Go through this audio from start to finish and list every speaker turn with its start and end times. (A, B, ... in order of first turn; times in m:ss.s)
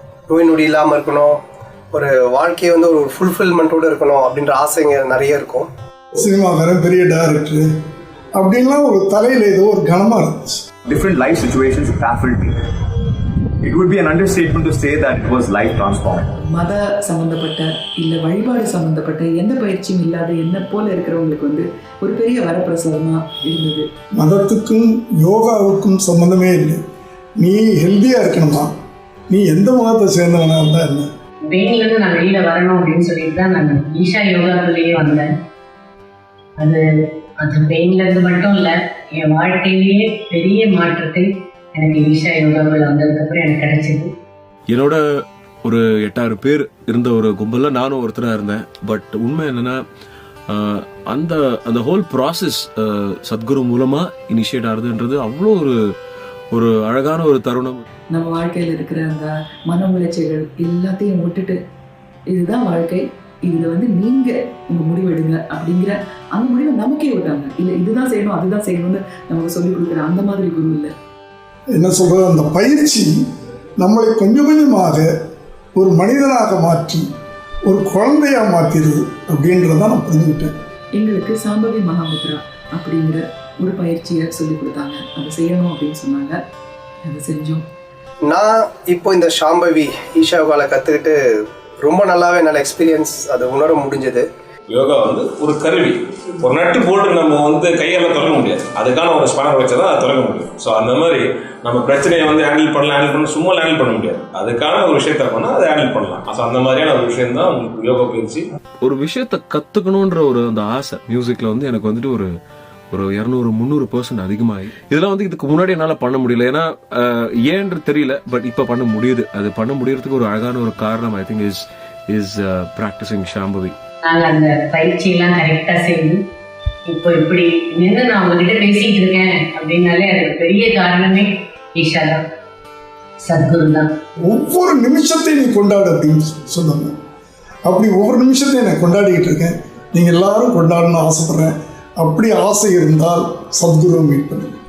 0:00.3-0:01.4 A
0:01.9-0:05.7 A
0:06.2-0:07.6 B
0:08.4-0:10.6 B
0:10.9-0:12.5 C
0:13.6-0:16.3 C
0:16.4-0:23.8 D
0:24.2-0:26.8 B
0:27.4-0:28.7 B
0:29.3-0:31.1 B
0:31.5-0:35.2 E
0:37.4-0:44.1 E
0:44.7-0:45.0 F
0:45.6-0:49.8 F
0:50.5-0:55.7 F
0:56.5-0:57.8 F
0:58.1-1:01.6 D
1:02.3-1:10.9 D
1:11.7-1:13.1 B
1:13.8-1:15.1 B
1:15.8-1:17.1 B
1:17.6-1:20.5 B
1:21.0-1:26.4 D
1:27.0-1:27.6 D
1:28.3-1:31.2 A
1:31.8-1:34.2 A
1:34.7-1:48.4 G
1:48.8-1:52.3 F
1:52.9-2:03.7 F
2:04.0-2:06.2 E
2:06.9-2:12.2 E
2:13.2-2:13.9 E
2:14.2-2:16.9 B
2:17.6-2:24.6 B